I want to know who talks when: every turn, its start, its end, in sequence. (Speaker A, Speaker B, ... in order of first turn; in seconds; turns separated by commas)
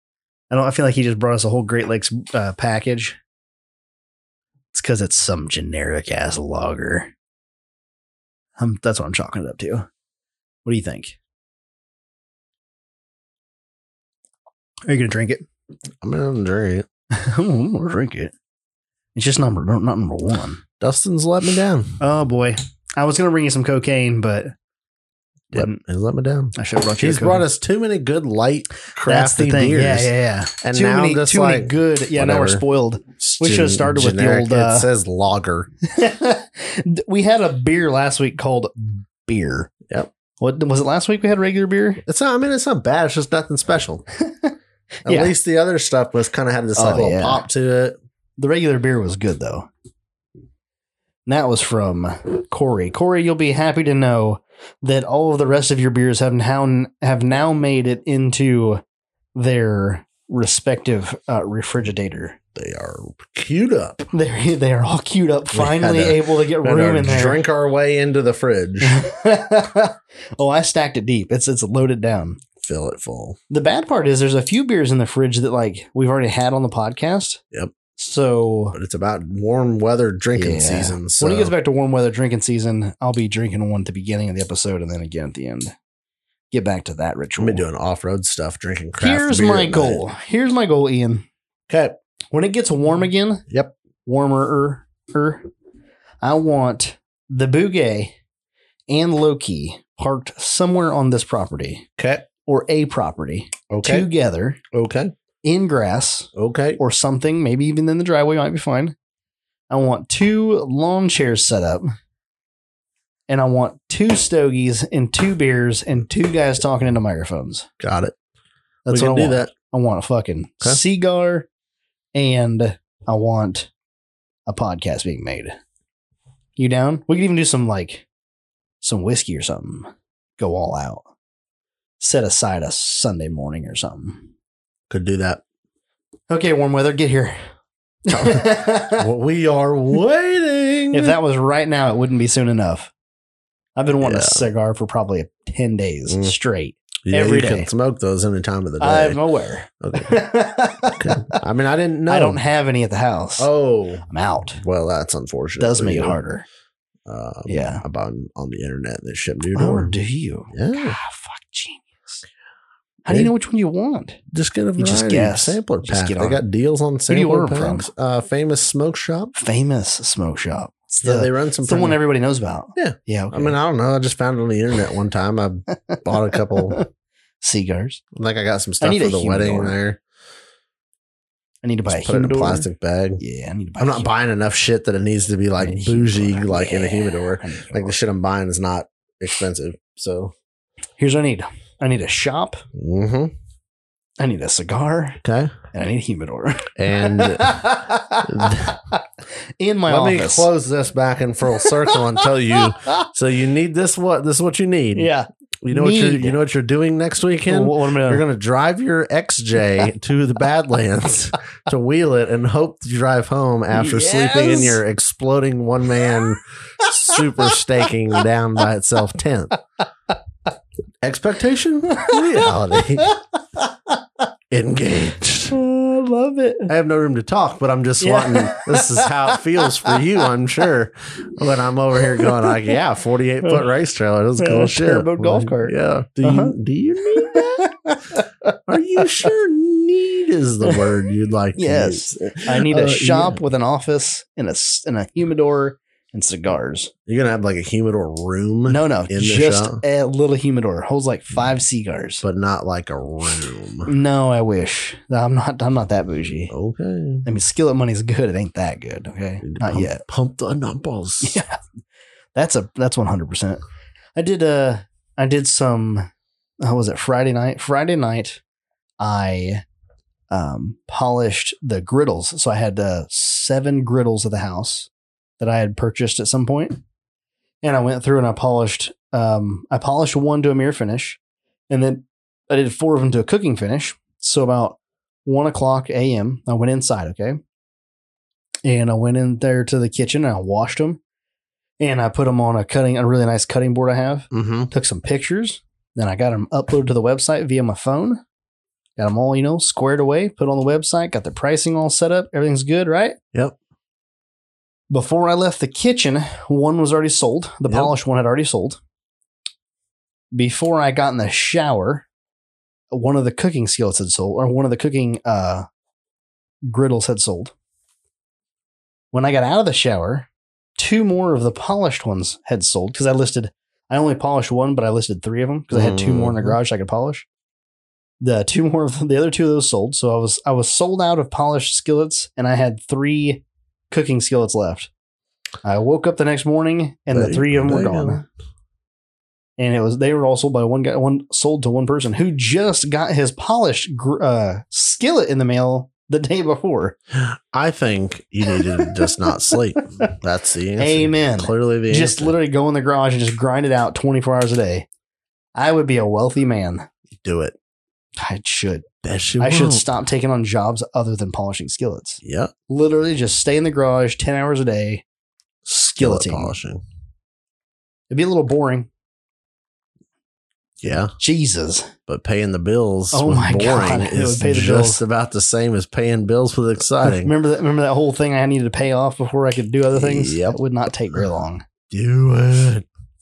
Speaker A: 0.5-3.2, Speaker A: 4.7-7.1, Speaker A: 8.6-9.9, Speaker A: 10.6-11.2, Speaker A: 14.9-15.4, Speaker B: 16.0-16.9, Speaker A: 17.1-18.3, Speaker A: 19.1-20.6, Speaker B: 20.8-22.0, Speaker A: 22.0-24.5, Speaker A: 25.5-25.8, Speaker B: 25.5-32.6, Speaker A: 26.5-27.4, Speaker A: 29.0-34.9, Speaker B: 33.2-35.7, Speaker A: 35.9-39.7, Speaker A: 40.4-42.0, Speaker B: 42.0-44.0, Speaker A: 44.2-44.5, Speaker A: 45.0-45.3, Speaker B: 45.0-48.0, Speaker A: 46.8-47.5, Speaker A: 48.4-49.7, Speaker A: 51.3-58.8, Speaker A: 59.3-62.4, Speaker B: 62.5-64.1, Speaker A: 64.1-67.4, Speaker B: 65.5-69.0, Speaker A: 68.8-72.4, Speaker B: 72.6-73.4, Speaker A: 73.5-77.4, Speaker A: 77.9-78.8, Speaker B: 78.7-81.5, Speaker A: 80.3-85.7, Speaker A: 86.5-87.6, Speaker B: 87.4-90.0, Speaker A: 89.0-91.2, Speaker B: 91.7-92.0, Speaker A: 92.3-93.4, Speaker A: 94.0-95.5, Speaker A: 96.2-98.1, Speaker A: 98.9-101.9, Speaker B: 102.0-102.3, Speaker A: 102.5-104.6, Speaker B: 103.7-104.1, Speaker B: 104.7-105.1, Speaker A: 105.4-108.9, Speaker B: 106.3-106.8, Speaker A: 109.7-111.9, Speaker A: 113.3-117.7, Speaker B: 117.8-118.1, Speaker A: 118.8-121.5, Speaker B: 118.9-119.5, Speaker A: 122.1-123.7, Speaker A: 124.5-125.5, Speaker A: 126.6-128.0, Speaker A: 128.8-131.1, Speaker A: 132.0-134.3, Speaker B: 134.9-135.4, Speaker A: 136.3-137.4, Speaker A: 138.1-139.1, Speaker B: 138.1-141.2, Speaker A: 140.9-142.9, Speaker A: 143.8-147.7, Speaker B: 144.0-144.5, Speaker B: 146.1-146.3, Speaker B: 147.1-149.2, Speaker A: 148.8-151.4, Speaker B: 149.8-150.2, Speaker B: 150.9-152.4, Speaker A: 152.1-153.5, Speaker B: 153.4-154.1, Speaker A: 154.1-154.6, Speaker B: 154.6-156.2, Speaker A: 155.6-156.4, Speaker B: 157.1-159.9, Speaker A: 157.5-157.8, Speaker A: 159.5-162.2, Speaker B: 160.5-161.0, Speaker A: 163.1-164.2, Speaker B: 164.3-169.3, Speaker A: 164.8-166.4, Speaker A: 167.1-167.9, Speaker A: 169.3-173.6, Speaker B: 171.0-172.0, Speaker B: 172.8-176.8, Speaker A: 176.5-176.8, Speaker A: 177.4-178.0, Speaker B: 178.1-180.0, Speaker A: 178.8-179.8, Speaker A: 181.6-182.7, Speaker B: 181.9-183.2, Speaker A: 183.2-184.1, Speaker B: 183.8-190.3, Speaker A: 185.6-188.0, Speaker A: 191.0-192.6, Speaker B: 192.7-193.3, Speaker A: 194.2-195.2, Speaker B: 195.2-195.5, Speaker A: 195.7-199.0, Speaker B: 196.8-198.8, Speaker A: 199.6-200.5, Speaker B: 199.9-205.1, Speaker A: 201.6-203.1, Speaker A: 204.9-206.4, Speaker B: 205.6-219.5, Speaker A: 207.5-208.2, Speaker A: 213.7-214.8, Speaker A: 216.8-217.5, Speaker B: 221.0-223.1, Speaker A: 221.9-223.2, Speaker B: 224.5-225.6, Speaker A: 225.5-226.7, Speaker B: 226.7-243.4, Speaker A: 228.0-229.9, Speaker A: 232.2-232.5, Speaker A: 234.4-236.5, Speaker A: 237.1-238.2, Speaker A: 241.6-246.9, Speaker B: 247.1-249.8, Speaker A: 248.7-252.2, Speaker B: 252.2-253.9, Speaker A: 253.8-256.5, Speaker B: 256.5-257.2, Speaker A: 257.2-260.0, Speaker B: 259.4-261.4, Speaker A: 261.2-261.6, Speaker A: 262.3-263.6, Speaker A: 264.1-266.1, Speaker A: 266.6-268.4, Speaker A: 269.0-269.6, Speaker A: 270.3-276.8, Speaker A: 277.6-287.4, Speaker A: 288.6-291.0, Speaker A: 291.8-298.2, Speaker B: 294.3-294.7, Speaker A: 299.0-303.2, Speaker A: 304.9-308.8, Speaker B: 307.7-307.9, Speaker A: 310.3-312.1, Speaker A: 312.9-315.7, Speaker A: 316.7-317.5, Speaker A: 319.1-327.2, Speaker B: 325.7-326.6, Speaker A: 328.2-334.9, Speaker A: 335.6-338.2, Speaker B: 337.1-338.2, Speaker A: 339.6-346.9, Speaker B: 347.1-352.3, Speaker A: 348.5-350.1, Speaker A: 350.8-354.9, Speaker A: 355.5-356.9, Speaker B: 357.1-357.5, Speaker A: 358.2-358.9, Speaker B: 359.0-359.9, Speaker A: 359.4-365.0, Speaker B: 362.2-362.5, Speaker A: 365.6-366.5, Speaker B: 366.0-366.8, Speaker A: 368.1-368.9, Speaker B: 370.8-371.1, Speaker A: 371.2-371.9, Speaker B: 372.1-377.3, Speaker A: 373.1-375.0, Speaker A: 377.0-381.6, Speaker B: 379.9-380.6, Speaker B: 381.9-382.9